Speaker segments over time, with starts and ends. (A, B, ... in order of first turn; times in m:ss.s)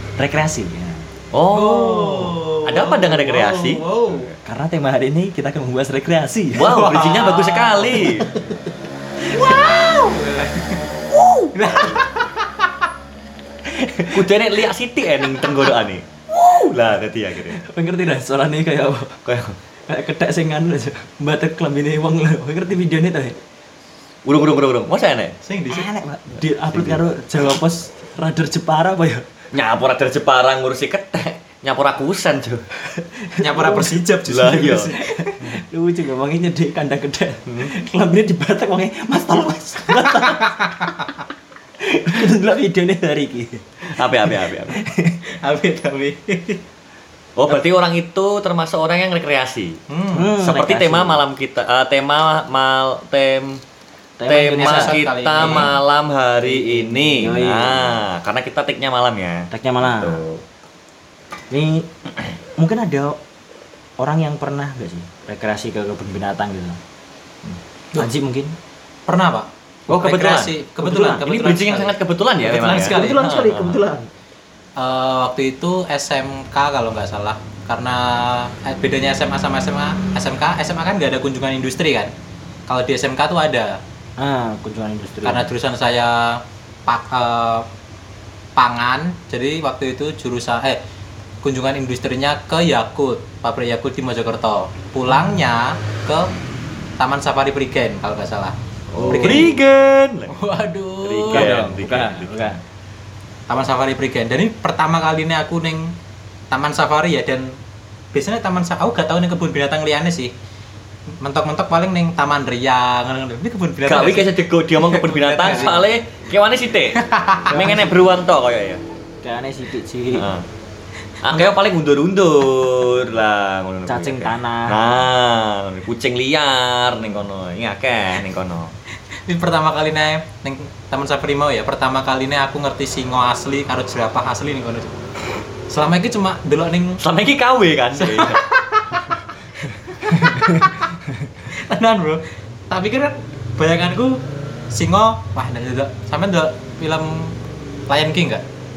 0:00.2-0:01.1 A
0:01.3-0:04.3 B
0:01.5-0:04.3 C
0:04.4-0:06.8 A
0:06.5-0:08.3 B
0:06.6-0:08.2 C
0:09.3-0:10.9 C
0:09.3-0:09.9 A
0:11.1-0:12.0 B
0:11.5-0:12.5 C
0:13.6-0:14.3 A
0:14.1-0:17.6 B
0:17.5-0:19.2 A
0:19.2-0:19.6 B
0:19.9-0:23.4 A
0:24.2-0:25.4 B
0:25.4-0:25.9 C
0:25.7-0:29.3 A
0:26.4-0:27.0 B
0:29.5-0:32.6 B
0:32.8-0:34.0 A
0:33.4-0:35.5 C
0:34.2-0:34.9 B
0:34.9-0:40.5 A
0:37.5-0:37.7 B
0:40.1-0:40.7 C
0:41.8-0:45.2 A
0:43.9-0:44.8 B
0:45.3-0:46.6 C
0:47.4-0:49.8 B
0:49.9-0:50.3 C
0:50.1-0:51.2 A
0:50.4-0:53.6 B
0:54.2-0:55.7 A
0:54.3-1:00.4 B
0:54.6-0:55.7 C
0:56.4-0:58.0 A
0:59.5-1:00.2 A
1:01.5-1:03.2 A
1:04.0-1:06.8 A
1:07.4-1:08.5 A
1:09.1-1:12.0 C
1:09.9-1:10.6 B
1:10.8-1:11.2 A
1:11.1-1:13.8 B
1:12.4-1:14.1 A
1:12.5-1:13.2 C
1:14.8-1:22.1 C
1:22.7-1:23.8 C
1:24.2-1:25.5 A
1:25.2-1:27.7 C
1:28.6-1:30.8 C
1:31.4-1:36.3 C
1:35.1-1:35.4 A
1:37.0-1:38.6 C
1:38.9-1:39.5 A
1:38.9-1:40.4 B
1:39.1-1:39.5 C
1:40.3-1:41.5 C
1:41.0-1:42.5 B
1:41.3-1:42.6 A
1:43.5-1:45.9 C
1:46.5-1:47.6 C
1:48.1-1:50.3 C
1:51.2-1:55.8 C
1:53.8-1:58.8 B
1:56.9-1:57.7 C
1:57.5-1:57.8 A
1:59.2-2:00.3 A
2:00.1-2:00.5 B
2:01.2-2:08.7 B
2:03.9-2:04.9 A
2:09.2-2:14.9 C
2:15.7-2:17.0 C
2:17.0-2:18.4 B
2:17.9-2:19.1 C
2:19.9-2:20.8 C
2:20.1-2:20.7 A
2:21.4-2:27.4 C
2:27.9-2:28.4 C